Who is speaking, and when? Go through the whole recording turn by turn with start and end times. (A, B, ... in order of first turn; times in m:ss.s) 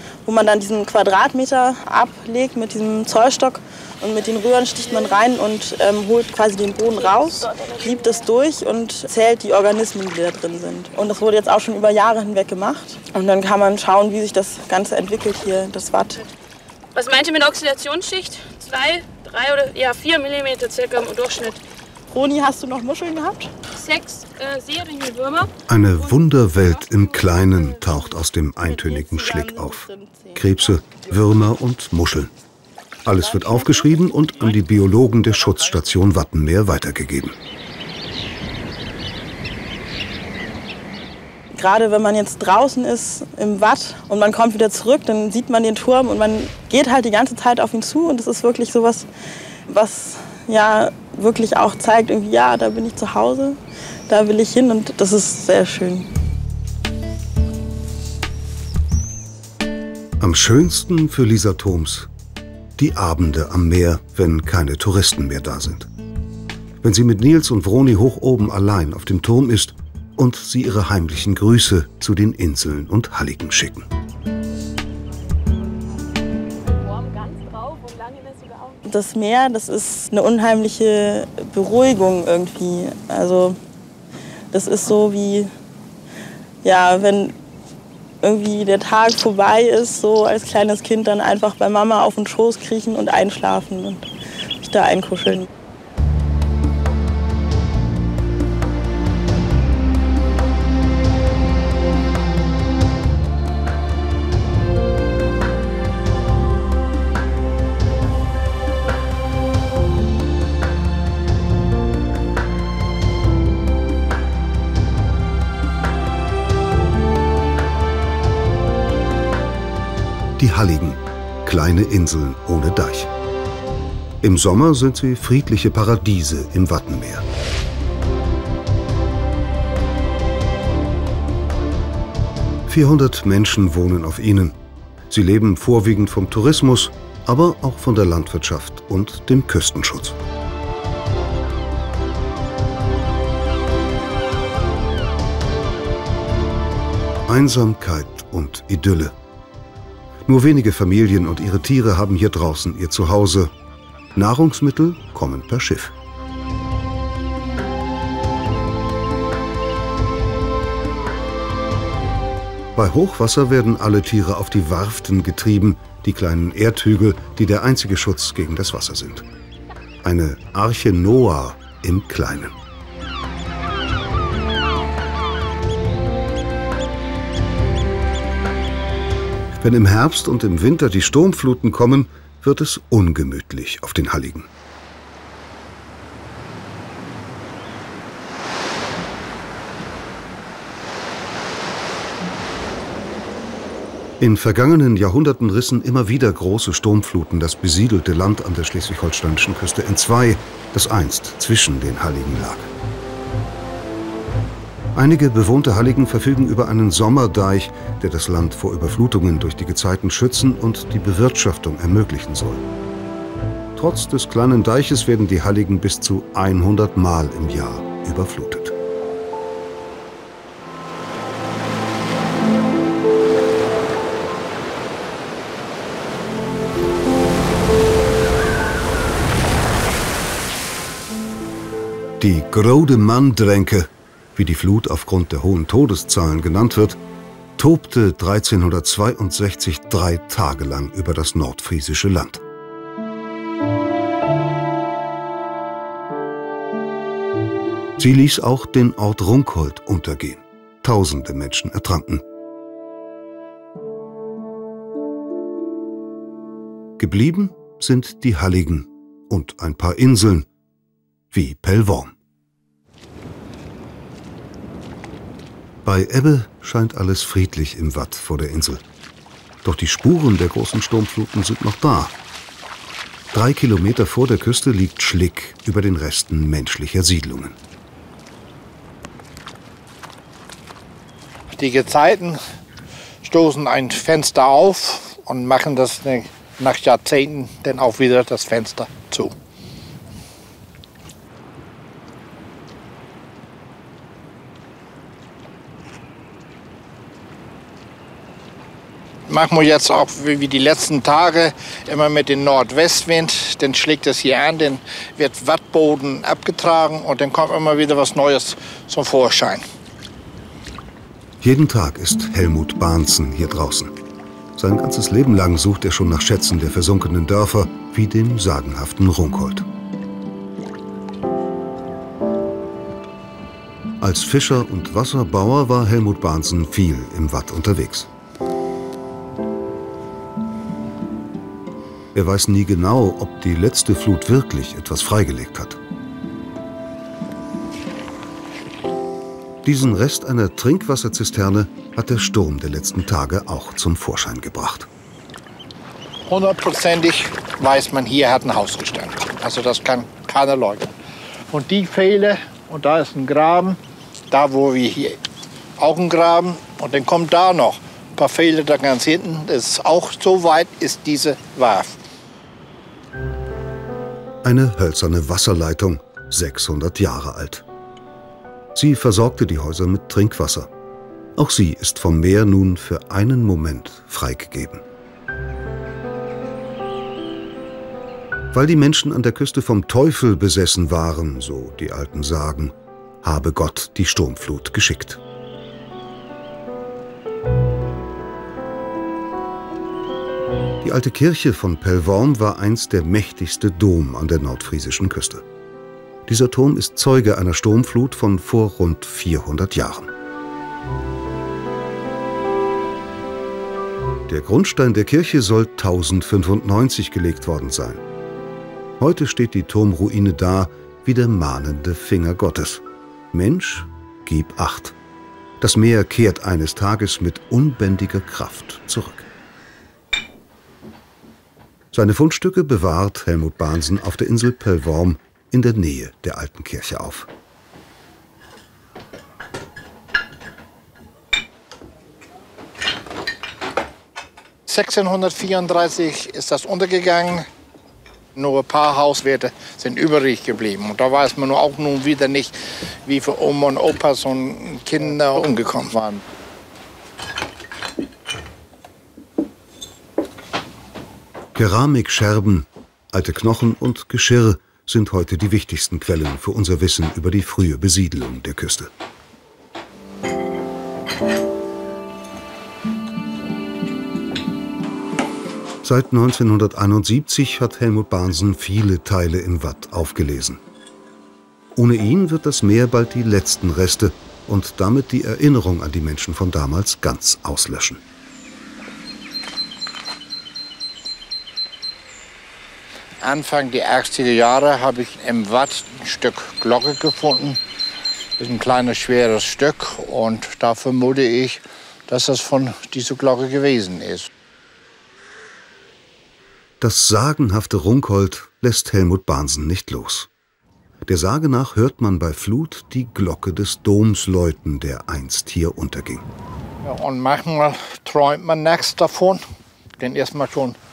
0:00.3-0:16.2 A
0:07.0-0:08.3 B
0:16.9-0:21.6 B
0:22.1-0:23.5 A
0:23.7-0:25.5 B
0:25.7-0:32.3 C
0:26.0-0:27.9 B
0:28.6-0:30.4 A
0:33.0-0:37.4 C
0:33.2-0:33.9 A
0:41.6-0:49.1 A
0:49.7-0:53.6 A
0:54.1-0:56.1 A
1:00.2-1:02.1 C
1:02.8-1:05.9 C
1:06.8-1:13.9 C
1:16.6-1:18.8 B
1:18.9-1:23.6 A
1:24.5-1:25.5 A
1:26.6-1:27.3 A
1:28.2-1:34.1 A
1:34.6-1:35.5 A
2:00.4-2:03.1 C
2:04.2-2:07.2 C
2:12.7-2:14.6 C
2:15.1-2:20.2 C
2:27.3-2:29.2 C
2:30.3-2:33.5 C
2:34.2-2:35.9 C
2:42.8-2:49.3 C
2:50.0-2:52.5 C
2:59.6-3:04.5 C
3:14.2-3:22.7 C
3:24.9-3:32.7 C
3:33.8-3:38.7 C
3:52.2-3:57.0 C
3:57.6-4:02.4 C
4:08.0-4:12.2 C
4:17.0-4:20.5 C
4:21.3-4:22.2 C
4:25.8-4:28.8 C
4:29.6-4:32.1 C
4:33.3-4:37.6 C
4:41.6-4:42.4 D
4:43.2-4:49.3 D
4:59.3-5:09.6 D
5:11.4-5:13.9 C
5:14.6-5:19.7 C
5:24.0-5:28.1 C
5:32.1-5:35.8 C
5:39.6-5:44.9 C
5:46.3-5:51.0 D
5:51.5-5:53.8 D
5:54.3-5:55.2 D
5:55.8-6:02.0 D
6:04.4-6:07.6 C
6:08.7-6:10.7 C
6:11.4-6:14.8 C
6:18.5-6:25.2 C
6:30.8-6:35.4 C
6:36.3-6:40.1 C
6:44.3-6:48.0 C
6:49.0-6:55.0 C
6:55.6-6:59.3 C
7:01.9-7:07.3 C
7:14.7-7:17.5 D
7:18.4-7:26.2 D
7:31.6-7:38.9 C
7:45.8-7:50.6 C
7:51.8-7:58.0 C
8:03.2-8:07.6 D
8:08.4-8:14.3 D
8:16.8-8:20.3 C
8:21.1-8:26.3 C
8:26.8-8:29.4 D
8:30.0-8:30.8 D